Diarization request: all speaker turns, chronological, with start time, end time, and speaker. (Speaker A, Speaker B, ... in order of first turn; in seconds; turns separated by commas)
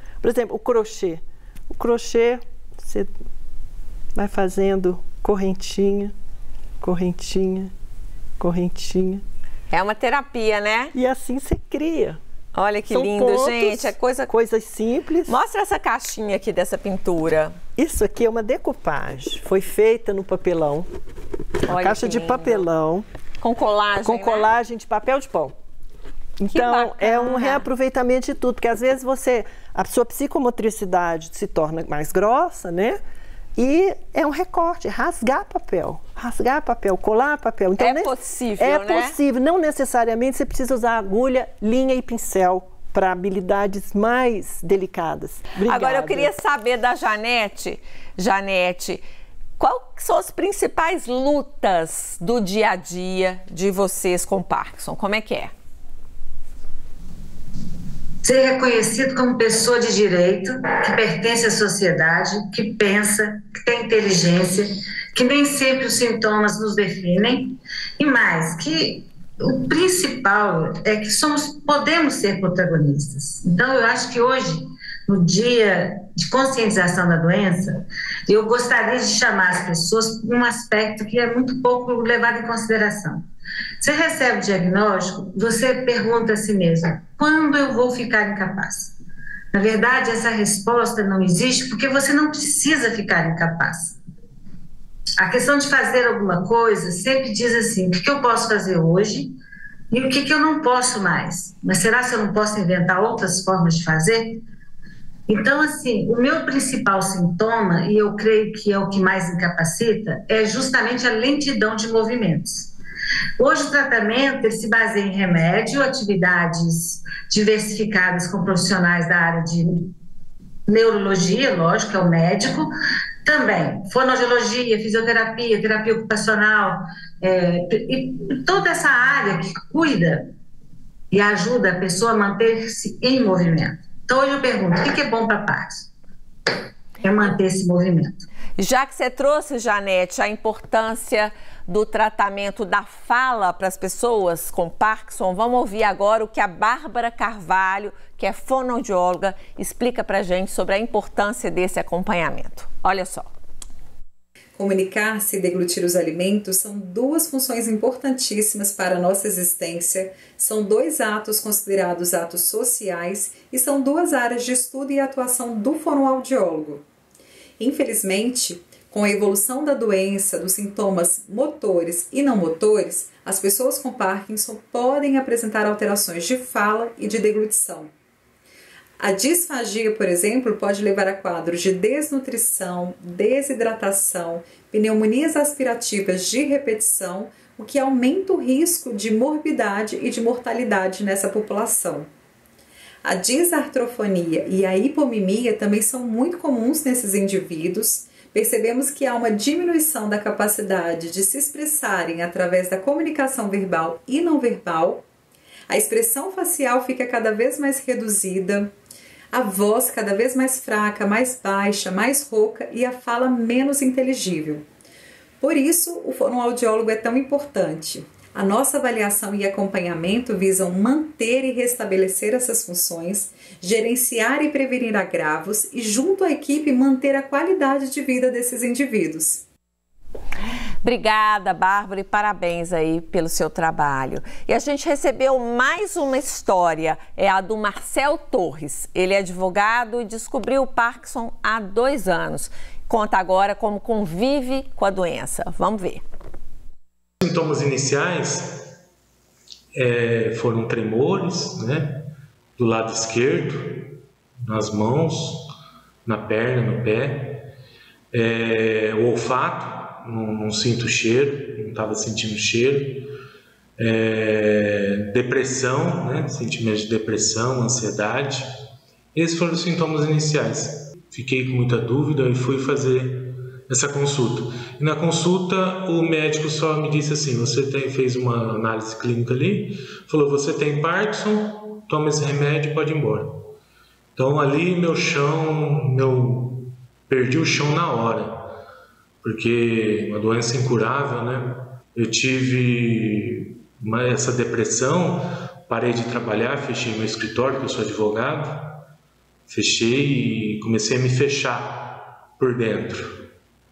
Speaker A: 0.2-3.1, Speaker A: 4.2-6.1, Speaker A: 6.8-7.7, Speaker A: 8.4-9.2, Speaker B: 9.7-10.9, Speaker A: 10.9-12.2, Speaker B: 12.5-14.3, Speaker A: 12.9-15.3, Speaker B: 15.3-17.6, Speaker A: 17.8-20.9, Speaker B: 21.7-22.7, Speaker A: 21.7-23.1, Speaker B: 23.4-24.5, Speaker A: 24.0-25.5, Speaker A: 26.4-33.0, Speaker B: 26.5-27.7, Speaker A: 33.6-46.3, Speaker B: 37.8-39.2, Speaker B: 45.6-49.0, Speaker B: 49.6-55.5, Speaker C: 58.2-83.2, Speaker C: 83.8-88.9, Speaker C: 89.5-94.0, Speaker C: 95.2-99.3, Speaker C: 99.9-104.4, Speaker C: 105.3-112.7, Speaker C: 113.4-119.9, Speaker C: 120.7-122.7, Speaker C: 123.2-130.3, Speaker C: 131.1-135.9, Speaker C: 137.0-138.2, Speaker B: 138.6-153.3, Speaker D: 154.6-166.8, Speaker D: 167.6-177.9, Speaker D: 179.0-192.1, Speaker D: 193.1-205.1, Speaker D: 205.7-208.7, Speaker D: 209.3-214.7, Speaker D: 215.4-229.4, Speaker B: 230.8-246.0, Speaker E: 247.2-248.7, Speaker E: 249.7-255.5, Speaker E: 256.1-257.5, Speaker E: 258.1-263.1, Speaker E: 263.8-268.5, Speaker E: 269.1-283.5, Speaker E: 284.2-288.5, Speaker E: 289.2-298.8, Speaker E: 299.5-303.1